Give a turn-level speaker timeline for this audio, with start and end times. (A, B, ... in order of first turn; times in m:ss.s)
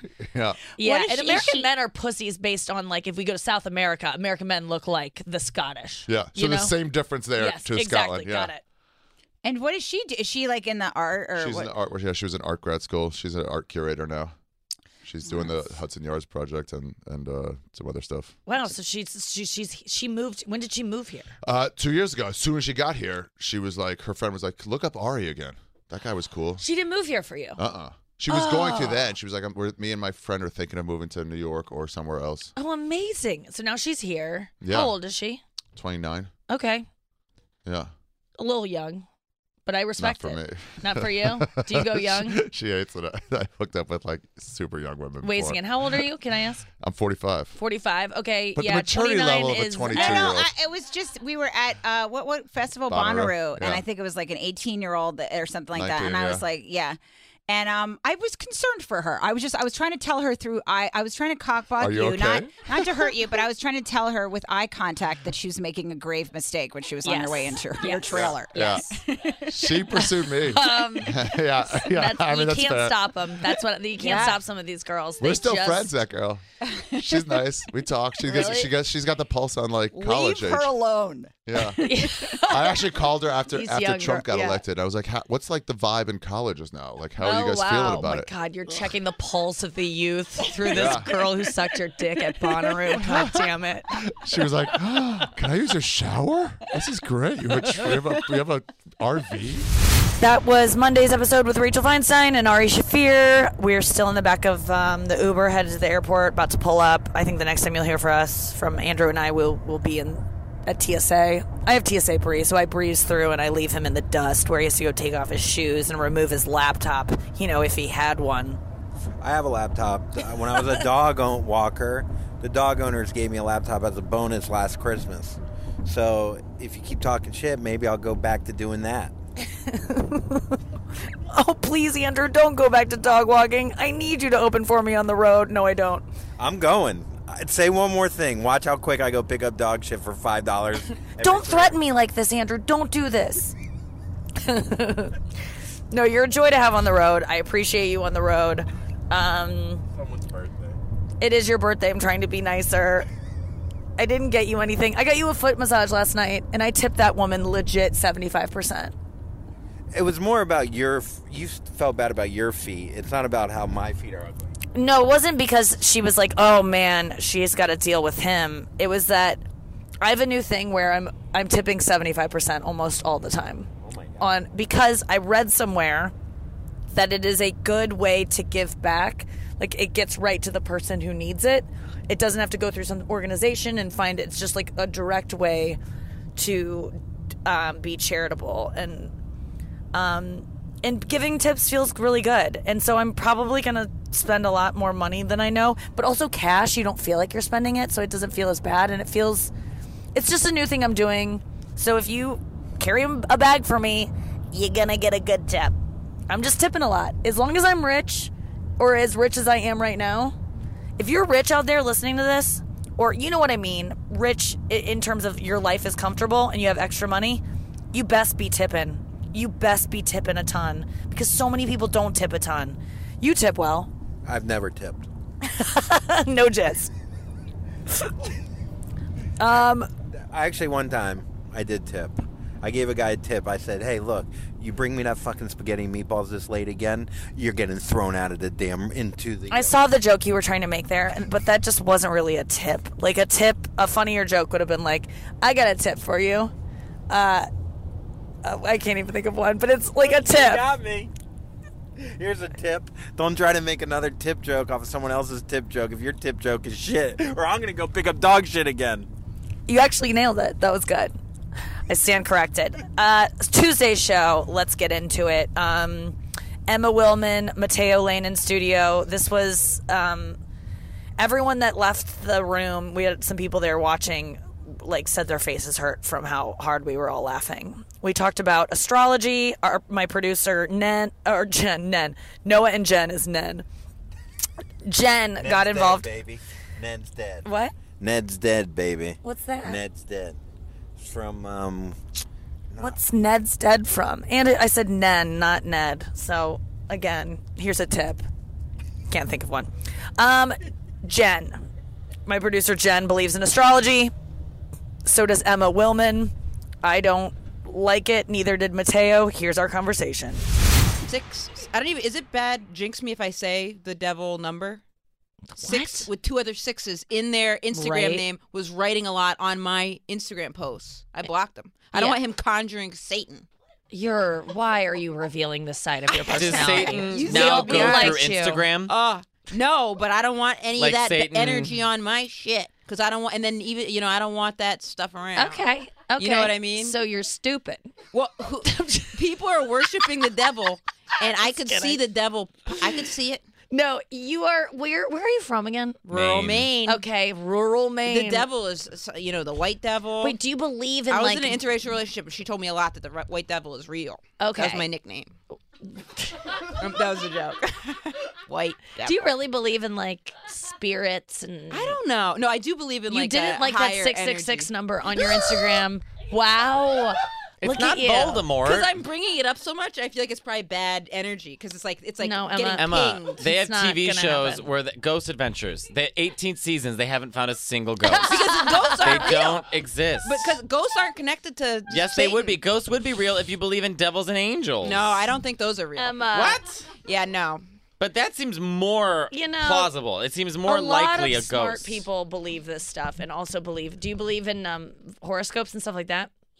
0:00.2-0:00.6 A
0:00.8-0:06.7 B
0:00.8-0:01.7 C
0:06.1-0:08.5 A
0:07.4-0:08.6 B
0:09.4-0:11.7 C
0:11.3-0:14.3 A
0:15.0-0:18.4 A
0:18.5-0:21.3 B
0:21.4-0:26.6 A
0:26.6-0:27.6 B
0:27.6-0:32.5 A
0:28.3-0:29.1 B
0:32.6-0:35.4 B
0:34.6-0:35.0 A
0:35.7-0:36.3 A
0:36.5-0:36.8 B
0:37.6-0:37.9 A
0:38.4-0:39.0 B
0:39.6-0:42.4 B
0:40.0-0:46.1 A
0:45.2-0:46.6 B
0:46.8-0:47.6 A
0:47.6-0:50.3 B
0:48.5-0:50.5 A
0:49.9-0:57.0 C
0:52.9-0:53.8 A
0:55.7-0:56.4 A
0:57.5-1:09.3 C
1:01.8-1:02.7 A
1:07.0-1:09.0 B
1:08.1-1:08.9 A
1:09.4-1:13.1 A
1:10.0-1:15.9 B
1:14.0-1:14.4 C
1:15.2-1:20.7 A
1:18.2-1:18.7 B
1:19.9-1:21.9 C
1:21.4-1:28.3 A
1:21.8-1:22.8 B
1:23.5-1:24.6 B
1:27.2-1:33.9 B
1:30.7-1:31.1 A
1:32.8-1:39.7 A
1:40.2-1:58.6 B
1:59.2-2:09.1 D
2:09.6-2:10.6 B
2:11.2-2:16.0 B
2:16.4-2:21.8 D
2:21.2-2:23.5 B
2:24.4-2:25.2 B
2:25.9-2:29.8 B
2:29.9-2:30.8 D
2:31.2-2:33.1 B
2:34.0-2:38.9 B
2:39.9-2:44.5 D
2:44.7-2:49.4 B
2:50.0-2:56.1 B
2:53.8-2:54.2 D
2:56.9-3:05.8 B
3:06.4-3:09.1 B
3:09.9-3:19.5 B
3:20.1-3:25.8 B
3:26.3-3:30.3 B
3:31.0-3:43.9 B
3:44.2-3:45.1 D
3:45.4-3:46.9 B
3:49.4-3:49.9 B
3:50.3-3:59.8 D
3:59.5-4:06.5 B
4:07.1-4:07.5 B
4:08.4-4:10.6 B
4:10.0-4:11.1 D
4:12.0-4:19.1 D
4:19.7-4:21.1 B
4:21.9-4:30.4 B
4:31.2-4:43.6 B
4:44.8-4:46.1 B
4:45.4-4:47.5 D
4:47.4-4:47.7 B
4:48.0-4:50.4 D
4:49.2-4:49.8 B
4:51.0-4:52.0 D
4:52.7-4:53.0 D
4:52.8-4:58.2 B
4:59.1-5:01.6 B
5:02.2-5:04.1 B
5:05.0-5:10.4 B
5:11.0-5:14.8 E
5:15.6-5:16.1 B
5:15.6-5:23.5 E
5:17.7-5:18.2 B
5:21.9-5:22.2 B
5:23.9-5:28.6 B
5:26.3-5:28.9 F
5:26.5-5:28.3 E
5:28.9-5:35.6 E
5:30.8-5:31.8 F
5:35.3-5:37.9 B
5:36.2-5:37.0 E
5:38.1-5:43.4 E
5:38.6-5:39.2 B
5:41.2-5:42.0 B
5:43.7-5:46.0 B
5:46.1-5:47.0 E
5:46.1-5:46.7 F
5:46.8-5:48.5 B
5:48.0-5:50.4 E
5:50.2-5:51.6 B
5:51.1-5:55.3 E
5:54.4-5:54.9 B
5:56.0-5:56.7 B
5:56.6-5:59.2 E
5:59.0-6:02.0 B
6:01.7-6:04.7 E
6:03.1-6:08.4 B
6:07.6-6:08.9 F
6:08.6-6:13.4 E
6:12.2-6:14.6 B
6:12.8-6:20.5 F
6:18.2-6:19.7 E
6:20.2-6:22.6 E
6:21.9-6:25.2 F
6:24.8-6:27.6 E
6:26.0-6:26.6 B
6:28.0-6:32.0 F
6:29.3-6:29.9 B
6:30.6-6:36.3 B